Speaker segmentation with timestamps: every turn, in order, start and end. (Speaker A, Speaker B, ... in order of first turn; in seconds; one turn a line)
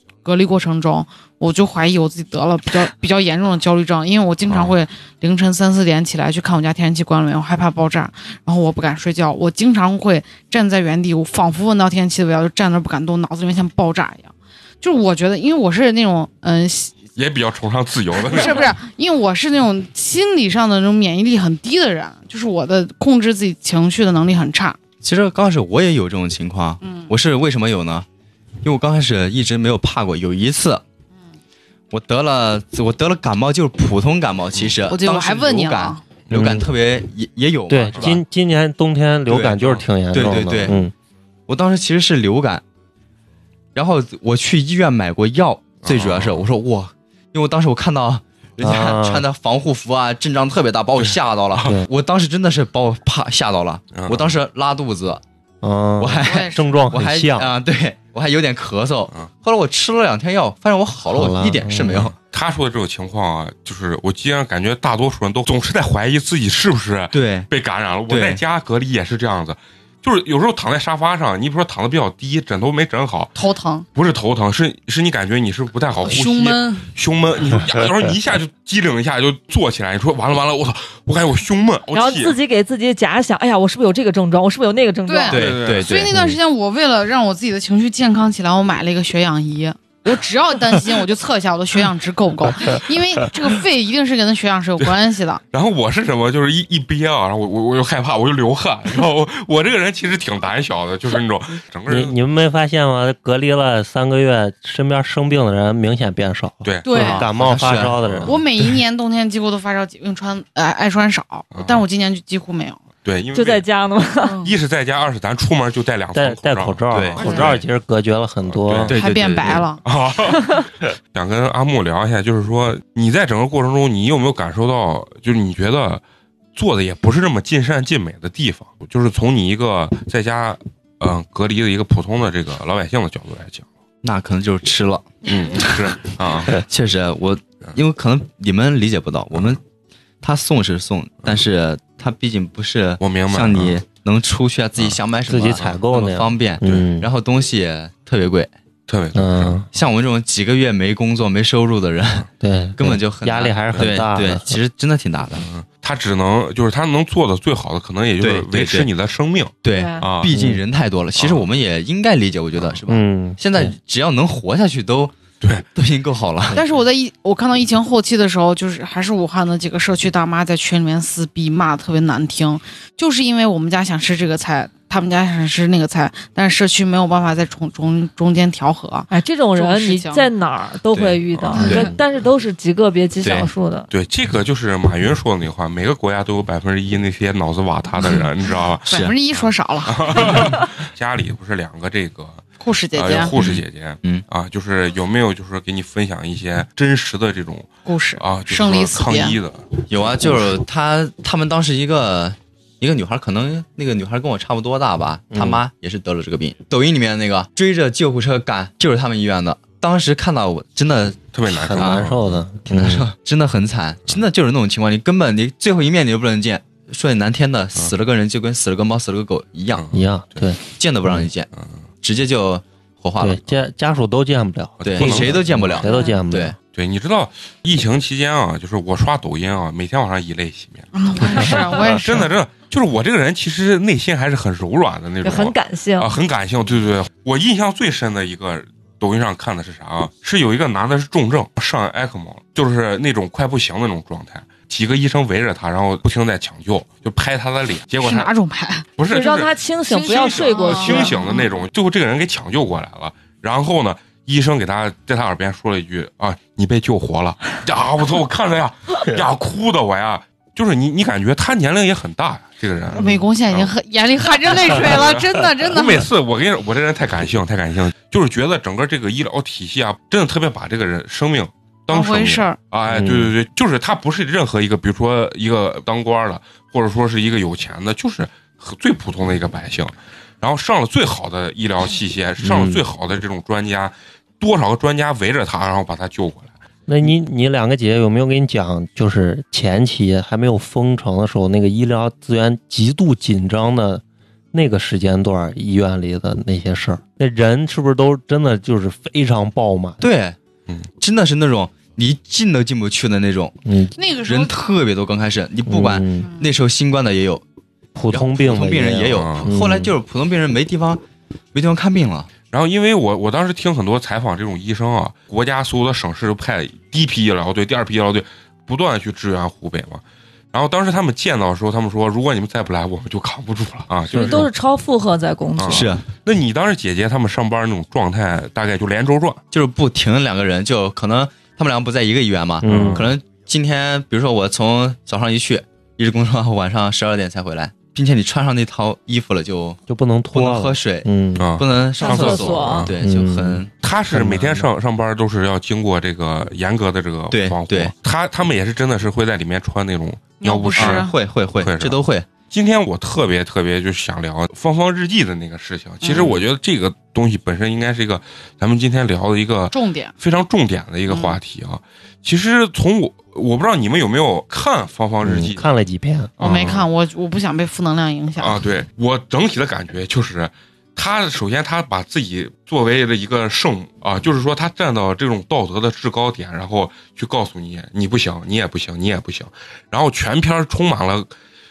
Speaker A: 0.2-16.9
Speaker B: 4.5-4.7
Speaker B: 17.1-18.8
Speaker A: 18.1-24.8
Speaker C: 25.0-28.1
Speaker A: 26.8-27.1
Speaker C: 28.6-30.8
Speaker C: 31.9-38.2
Speaker A: 34.9-36.0
Speaker D: 36.3-36.7
Speaker D: 37.7-40.9
Speaker C: 39.3-40.8
Speaker B: 39.6-39.8
Speaker C: 41.5-42.6
Speaker C: 43.7-55.2
Speaker B: 45.8-46.5
Speaker D: 48.6-49.2
Speaker B: 51.0-51.7
Speaker B: 53.9-54.3
Speaker D: 55.6-57.5
Speaker C: 56.0-62.1
Speaker A: 56.2-56.8
Speaker D: 61.1-62.1
Speaker B: 62.1-73.3
Speaker C: 67.1-67.5
Speaker C: 68.1-68.4
Speaker A: 73.3-73.8
Speaker B: 73.9-82.3
Speaker A: 76.0-76.9
Speaker E: 81.9-85.6
Speaker A: 85.1-95.4
Speaker C: 85.3-86.1
Speaker B: 85.3-86.0
Speaker D: 86.1-86.4
Speaker B: 95.5-102.1
Speaker D: 101.9-108.4
Speaker B: 106.6-108.4
Speaker A: 106.8-107.2
Speaker C: 107.0-108.0
Speaker A: 108.2-112.8
Speaker B: 111.5-111.8
Speaker B: 113.0-113.6
Speaker E: 113.3-114.4
Speaker A: 114.2-114.5
Speaker B: 114.4-117.7
Speaker D: 116.1-118.9
Speaker C: 116.9-117.2
Speaker A: 117.2-117.5
Speaker B: 118.5-126.0
Speaker C: 118.9-119.7
Speaker A: 118.9-119.8
Speaker B: 126.5-133.7
Speaker C: 134.0-139.6
Speaker B: 135.2-136.6
Speaker C: 140.2-148.5
Speaker B: 143.0-143.8
Speaker D: 145.3-147.1
Speaker B: 148.9-149.6
Speaker D: 149.1-149.7
Speaker C: 149.7-155.5
Speaker D: 152.4-154.6
Speaker B: 155.4-160.3
Speaker C: 158.2-158.9
Speaker C: 159.6-165.1
Speaker E: 159.7-160.1
Speaker D: 160.3-160.6
Speaker B: 161.2-161.4
Speaker D: 162.9-163.7
Speaker C: 165.7-166.6
Speaker A: 166.5-180.3
Speaker E: 179.1-183.9
Speaker C: 180.9-181.9
Speaker B: 181.3-181.6
Speaker A: 181.5-181.9
Speaker C: 183.2-183.5
Speaker B: 183.9-192.4
Speaker A: 188.0-188.3
Speaker A: 188.8-190.6
Speaker C: 188.9-189.1
Speaker A: 192.6-193.3
Speaker B: 192.9-200.5
Speaker C: 193.3-194.2
Speaker A: 197.8-199.4
Speaker C: 199.9-212.0
Speaker D: 205.3-205.6
Speaker B: 211.3-212.4
Speaker D: 211.4-213.0
Speaker C: 212.7-219.8
Speaker B: 219.8-220.5
Speaker D: 219.9-220.6
Speaker C: 220.7-221.5
Speaker C: 222.0-223.4
Speaker D: 223.2-226.5
Speaker B: 224.8-225.8
Speaker C: 224.8-226.5
Speaker E: 225.8-226.2
Speaker B: 226.7-248.3
Speaker A: 230.9-232.3
Speaker E: 235.2-236.1
Speaker A: 248.0-248.8
Speaker B: 249.0-263.7
Speaker E: 249.1-251.3
Speaker A: 249.9-251.5
Speaker A: 262.9-266.1
Speaker B: 264.4-286.5
Speaker A: 271.9-272.6
Speaker D: 272.9-273.3
Speaker D: 282.4-282.8
Speaker D: 286.9-300.0
Speaker C: 300.0-300.4
Speaker C: 301.0-303.5
Speaker D: 303.6-303.9
Speaker A: 303.9-304.6
Speaker C: 304.2-307.4
Speaker D: 305.7-306.3
Speaker A: 306.2-306.5
Speaker D: 307.9-309.9
Speaker C: 308.1-311.0
Speaker B: 309.1-309.5
Speaker C: 311.5-312.3
Speaker B: 312.5-320.0
Speaker B: 320.5-324.5
Speaker E: 324.1-325.9
Speaker D: 324.1-324.5
Speaker B: 325.6-329.4
Speaker C: 325.7-326.0
Speaker C: 329.5-339.8
Speaker D: 332.6-333.1
Speaker B: 332.6-333.1
Speaker D: 339.9-341.5
Speaker C: 340.3-343.7
Speaker B: 341.4-342.9
Speaker E: 342.0-342.9
Speaker D: 343.0-344.7
Speaker B: 343.8-351.1
Speaker C: 347.3-347.9
Speaker A: 350.4-351.1
Speaker C: 350.7-352.3
Speaker B: 351.6-352.0
Speaker B: 352.5-365.7
Speaker A: 356.0-356.4
Speaker A: 359.7-360.1
Speaker A: 361.1-361.4
Speaker D: 365.2-366.7
Speaker B: 366.4-366.9
Speaker A: 366.4-368.6
Speaker B: 368.4-381.3